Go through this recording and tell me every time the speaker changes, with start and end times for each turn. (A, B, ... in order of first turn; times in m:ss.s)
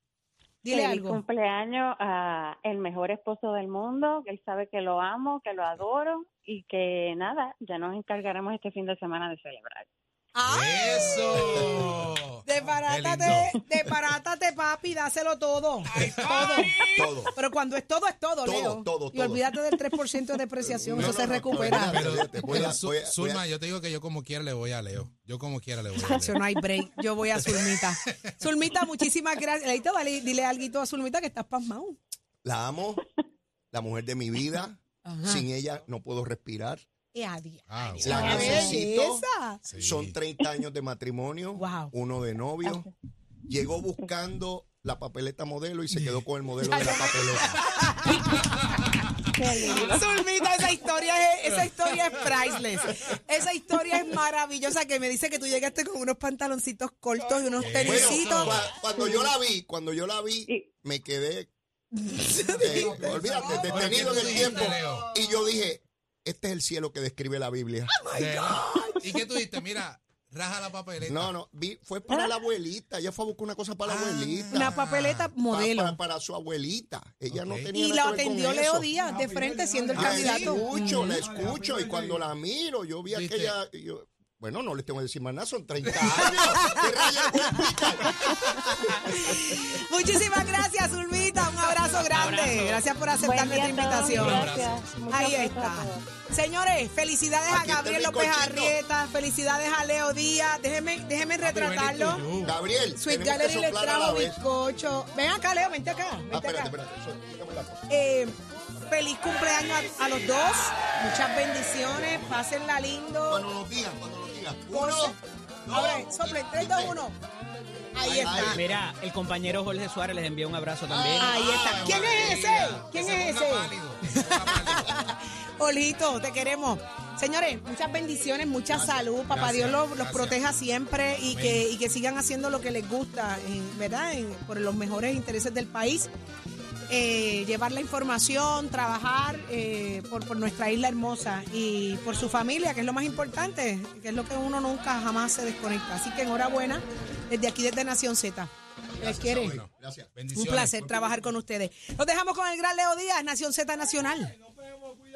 0:00.6-0:01.2 A
0:00.7-0:09.9 B
0:10.3-0:11.7 A
0:10.5-0:13.6 C
0:12.4-0:16.7 A
0:15.9-0:17.1 C
0:17.0-0:17.3 D
0:17.3-0:22.0 A
0:18.4-0:19.5 D
0:20.7-0:23.4 D
0:20.9-0:26.4 C
0:26.1-0:32.0 A
0:32.4-0:33.0 D
0:33.7-0:36.8 D
0:35.0-0:35.5 A
0:37.1-0:39.6 A
0:37.7-0:38.8 C
0:38.0-0:42.9 D
0:39.7-0:40.2 C
0:41.6-0:41.9 A
0:43.5-0:47.6 D
0:46.7-0:47.2 A
0:47.8-0:48.7 A
0:48.2-0:48.9 C
0:49.3-0:50.1 B
0:49.7-0:58.6 A
0:51.6-0:52.3 C
0:57.6-0:58.7 C
0:57.7-1:01.5 D
0:59.0-0:59.3 B
1:02.0-1:03.7 A
1:02.5-1:05.1 C
1:02.6-1:08.0 D
1:08.1-1:09.0 A
1:08.1-1:11.3 C
1:11.0-1:14.7 D
1:12.1-1:12.3 B
1:13.8-1:15.3 C
1:14.5-1:16.0 A
1:15.5-1:18.9 D
1:17.3-1:17.7 C
1:17.7-1:21.2 A
1:19.9-1:28.3 D
1:20.2-1:20.6 C
1:23.1-1:23.5 C
1:26.0-1:27.7 A
1:28.4-1:34.5 A
1:32.2-1:32.8 E
1:33.2-1:36.0 B
1:34.0-1:35.2 C
1:35.1-1:42.3 A
1:37.5-1:38.8 D
1:41.4-1:42.5 C
1:42.4-1:44.4 D
1:43.0-1:46.7 A
1:46.3-1:47.8 D
1:47.9-1:48.4 A
1:48.9-1:53.4 A
1:51.8-1:52.4 D
1:53.3-1:57.0 D
1:54.7-1:55.2 A
1:55.7-1:57.2 A
1:57.9-1:58.6 A
1:58.0-1:58.8 D
1:58.5-2:01.1 E
2:00.8-2:02.2 D
2:01.1-2:05.0 C
2:01.2-2:16.1 A
2:08.7-2:09.1 D
2:09.3-2:10.4 C
2:11.2-2:11.7 C
2:16.9-2:29.6 A
2:29.0-2:30.1 D
2:29.4-2:30.8 C
2:30.3-2:34.3 A